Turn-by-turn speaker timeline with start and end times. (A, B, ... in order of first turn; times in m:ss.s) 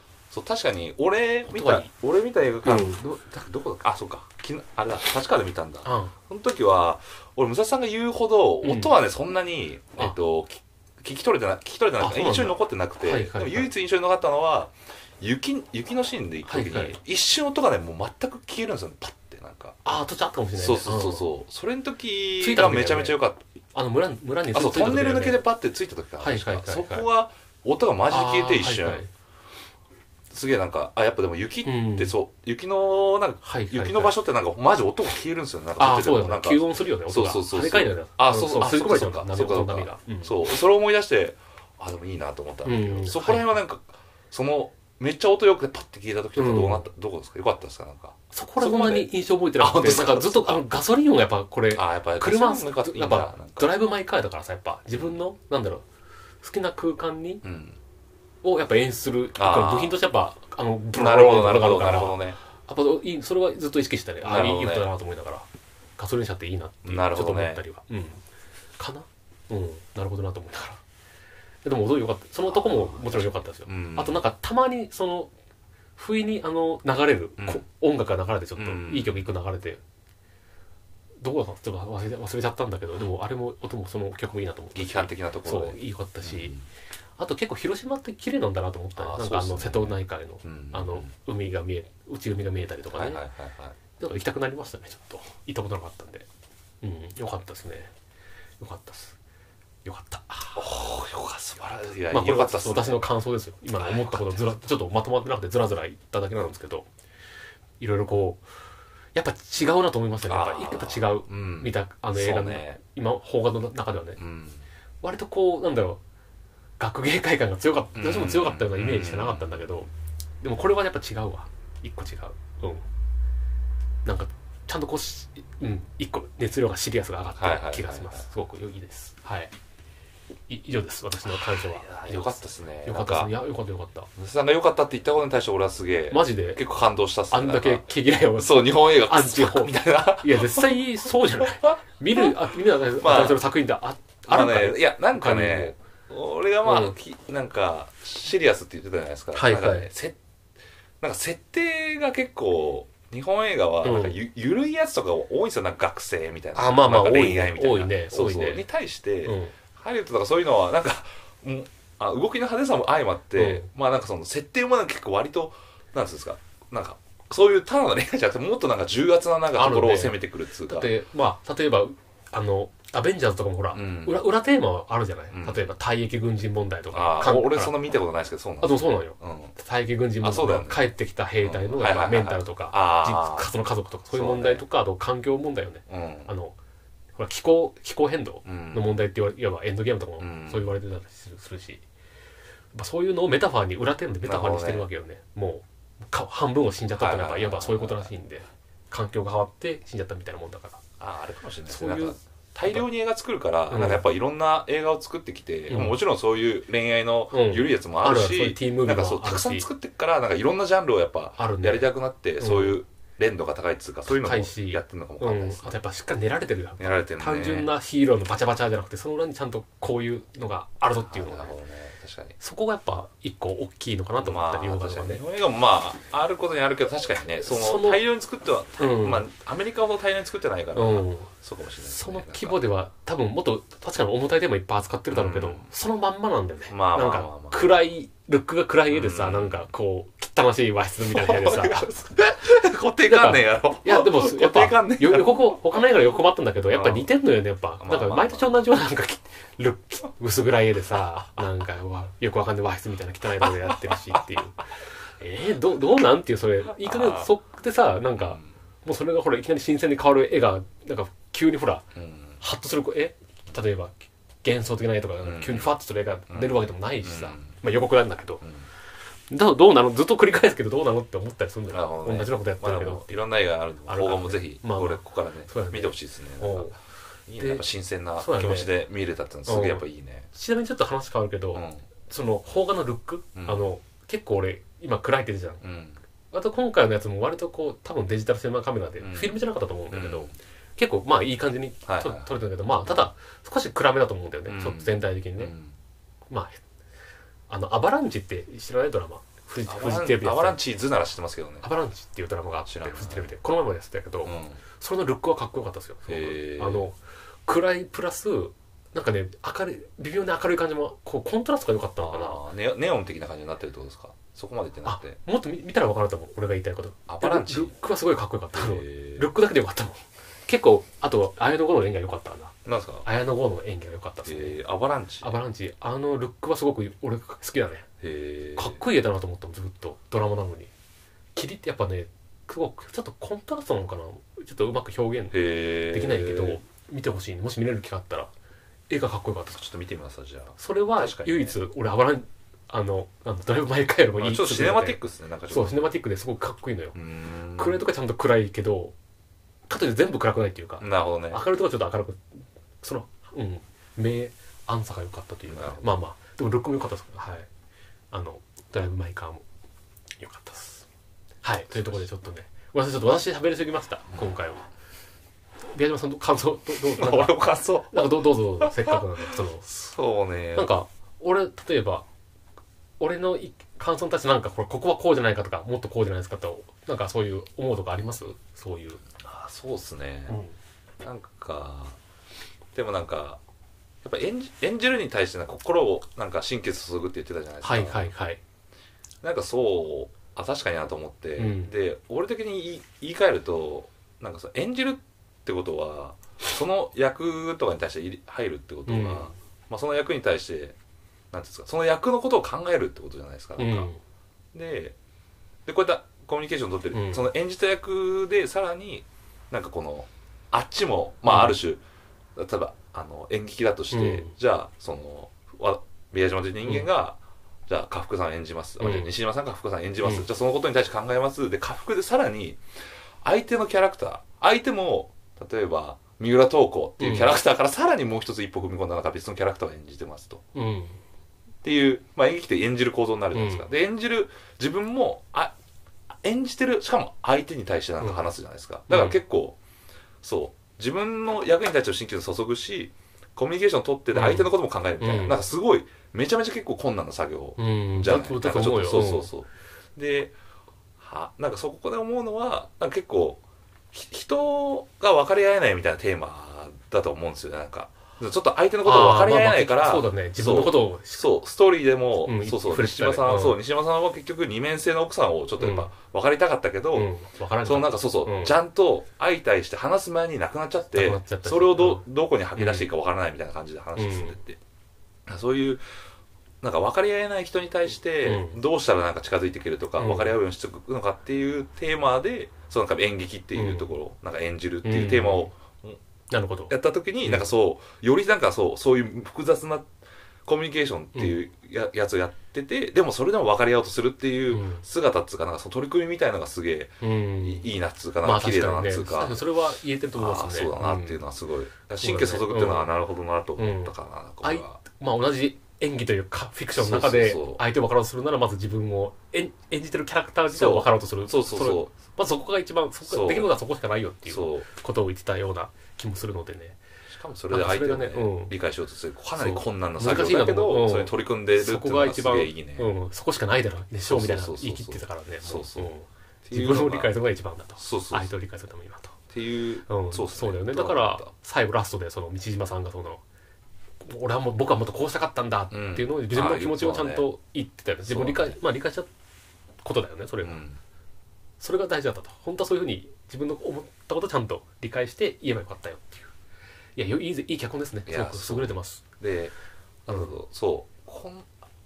0:00.3-0:19.8 A
0:01.5-0:01.9 B
0:02.6-0:03.0 B
0:05.8-0:06.2 B
0:08.6-0:08.9 B
0:12.0-0:13.7 B
0:16.5-0:17.0 B
0:19.8-0:21.3 B
0:20.6-0:23.4 A
0:22.4-0:23.2 B
0:23.7-0:25.4 B
0:24.5-0:29.0 A
0:26.2-0:27.1 B
0:28.1-0:29.1 B
0:30.3-0:50.6 A
0:31.6-0:32.2 B
0:33.4-0:34.2 B
0:35.8-0:40.3 B
0:42.6-0:43.6 B
0:46.4-0:46.8 B
0:48.3-0:55.8 B
0:51.7-0:53.7 A
0:56.4-0:57.4 B
0:57.4-0:57.8 A
0:58.4-1:05.5 B
0:59.4-1:00.0 A
1:01.0-1:02.4 A
1:04.2-1:04.9 A
1:06.0-1:08.2 B
1:06.8-1:07.6 A
1:08.8-1:10.8 B
1:11.6-1:15.3 B
1:12.5-1:14.2 A
1:16.0-1:19.8 B
1:18.6-1:19.3 A
1:21.2-1:26.6 B
1:24.8-1:26.6 A
1:27.2-1:33.2 B
1:29.0-1:31.1 A
1:32.9-1:33.8 A
1:34.0-1:36.3 B
1:36.8-1:37.9 B
1:38.6-1:39.2 B
1:39.8-1:40.6 B
1:40.6-1:43.1 A
1:42.1-1:46.9 B
1:43.8-1:44.6 A
1:47.8-1:48.4 B
1:49.2-1:54.2 B
1:50.3-1:52.8 A
1:54.2-1:54.6 A
1:55.0-1:56.0 B
1:56.8-1:59.9 B
1:58.0-1:59.6 A
2:00.4-2:02.8 B
2:04.0-2:09.5 B
2:07.4-2:08.2 A
2:10.5-2:14.1 B
2:11.3-2:13.3 A
2:14.2-2:20.8 A
2:16.1-2:16.6 B
2:17.3-2:25.8 B
2:21.4-2:22.4 A
2:23.0-2:23.4 A
2:24.3-2:30.2 A
2:26.6-2:26.9 B
2:29.4-2:29.9 B
2:31.0-2:50.9 A
2:33.8-2:34.2 B
2:36.6-2:38.6 B
2:39.2-2:39.5 B
2:43.4-2:43.7 B
2:49.5-2:57.8 B
2:53.7-2:54.2 A
2:55.3-2:55.7 A
2:56.9-2:59.5 A
2:58.6-3:06.6 B
3:00.2-3:00.9 A
3:01.4-3:03.5 A
3:04.1-3:04.6 A
3:05.9-3:06.3 A
3:07.2-3:11.8 B
3:08.4-3:09.0 A
3:10.2-3:10.8 A
3:12.7-3:20.8 B
3:14.2-3:14.9 A
3:17.0-3:18.1 A
3:21.0-3:35.8 A
3:21.7-3:22.9 B
3:23.7-3:24.0 B
3:25.7-3:26.0 B
3:27.3-3:29.7 B
3:31.4-3:32.8 B
3:34.1-3:41.5 B
3:36.8-3:37.7 A
3:41.1-3:42.4 A
3:42.4-3:45.2 B
3:44.2-3:52.6 A
3:47.4-3:48.0 B
3:48.8-3:49.3 B
3:50.8-3:51.3 B
3:51.8-4:02.0 B
3:55.1-3:55.7 A
3:56.7-3:57.9 A
3:58.9-3:59.7 A
4:01.1-4:05.6 A
4:03.1-4:14.7 B
4:06.7-4:07.1 A
4:07.8-4:08.7 A
4:13.4-4:14.2 A
4:15.2-4:21.9 B
4:16.8-4:17.3 A
4:18.2-4:18.4 A
4:22.0-4:22.4 A
4:22.4-4:28.4 B
4:25.2-4:25.7 A
4:26.3-4:27.5 A
4:29.3-4:33.0 B
4:31.7-4:40.3 A
4:33.9-4:36.8 B
4:37.4-4:37.6 B
4:38.2-4:38.7 B
4:39.5-4:45.6 B
4:41.6-4:41.8 A
4:43.4-4:43.6 A
4:45.6-4:46.0 A
4:46.3-4:55.5 B
4:49.0-4:50.4 A
4:51.9-4:52.3 A
4:54.5-4:55.7 A
4:56.3-4:56.6 B
4:57.5-5:00.6 B
4:59.7-5:01.7 A
5:01.6-5:12.4 B
5:02.7-5:03.3 A
5:04.2-5:04.6 A
5:06.1-5:06.8 A
5:12.0-5:15.2 A
5:14.9-5:24.6 B
5:17.1-5:17.7 A
5:18.5-5:19.3 A
5:22.6-5:23.0 A
5:24.2-5:25.3 A
5:25.2-5:27.9 B
5:28.0-5:28.8 A
5:28.6-5:30.7 B
5:31.4-5:38.3 B
5:35.3-5:36.6 A
5:38.9-5:39.6 B
5:39.5-5:41.5 A
5:40.6-5:45.0 B
5:44.2-5:45.9 A
5:45.5-5:47.0 B
5:47.0-5:47.8 A
5:47.6-5:49.0 B
5:49.7-5:57.5 B
5:50.8-5:51.4 A
5:55.5-5:55.8 A
5:58.1-5:59.4 B
6:00.2-6:00.9 B
6:01.4-6:04.6 B
6:01.7-6:02.0 A
6:05.7-6:09.7 B
6:06.9-6:10.7 A
6:10.6-6:12.1 B
6:13.0-6:19.0 B
6:19.2-6:20.4 A
6:20.3-6:20.5 B
6:21.0-6:22.0 A
6:22.8-6:23.4 A
6:24.0-6:28.1 A
6:27.6-6:28.4 B
6:29.2-6:40.8 A
6:31.4-6:31.7 B
6:38.9-6:39.3 B
6:41.3-6:43.9 A
6:43.6-6:44.0 B
6:44.5-6:45.0 A
6:45.7-6:51.8 A
6:46.9-6:47.3 B
6:51.3-6:51.6 B
6:52.4-7:02.6 A
6:53.9-6:54.3 B
6:58.8-6:59.1 B
7:03.2-7:10.4 A
7:07.0-7:07.4 B
7:10.6-7:11.0 B
7:11.6-7:15.6 A
7:13.3-7:13.7 B
7:16.2-7:19.6 A
7:18.0-7:18.3 B
7:18.9-7:19.2 B
7:20.2-7:30.4 A
7:24.1-7:25.4 B
7:27.6-7:29.3 B
7:31.0-7:47.1 A
7:38.8-7:41.2 B
7:42.2-7:43.6 B
7:45.6-7:45.9 B
7:46.9-7:48.6 B
7:47.6-7:54.6 A
7:50.9-7:52.0 B
7:52.6-7:52.9 B
7:54.0-7:54.4 B
7:55.3-7:55.8 A
7:56.6-8:06.0 A
7:58.2-7:58.6 B
8:00.0-8:00.3 B
8:03.5-8:03.9 B
8:04.8-8:05.5 B
8:06.3-8:07.5 B
8:06.7-8:09.9 A
8:10.4-8:19.4 A
8:14.5-8:14.8 B
8:17.0-8:17.7 B
8:18.2-8:21.2 B
8:20.2-8:24.8 A
8:22.0-8:22.9 B
8:23.6-8:36.8 B
8:26.8-8:27.6 A
8:30.5-8:31.9 A
8:33.1-8:33.5 A
8:34.3-8:34.7 A
8:37.1-8:42.9 A
8:37.5-8:38.5 B
8:39.4-8:49.2 B
8:44.1-8:45.9 A
8:46.4-8:47.1 A
8:47.8-8:48.3 A
8:49.3-8:51.3 A
8:49.9-8:53.2 B
8:54.0-8:59.1 B
8:55.7-8:57.3 A
8:58.1-8:58.6 A
8:59.8-9:00.6 B
9:00.4-9:00.8 A
9:01.6-9:06.3 B
9:07.0-9:09.0 B
9:08.1-9:09.5 A
9:10.1-9:11.5 A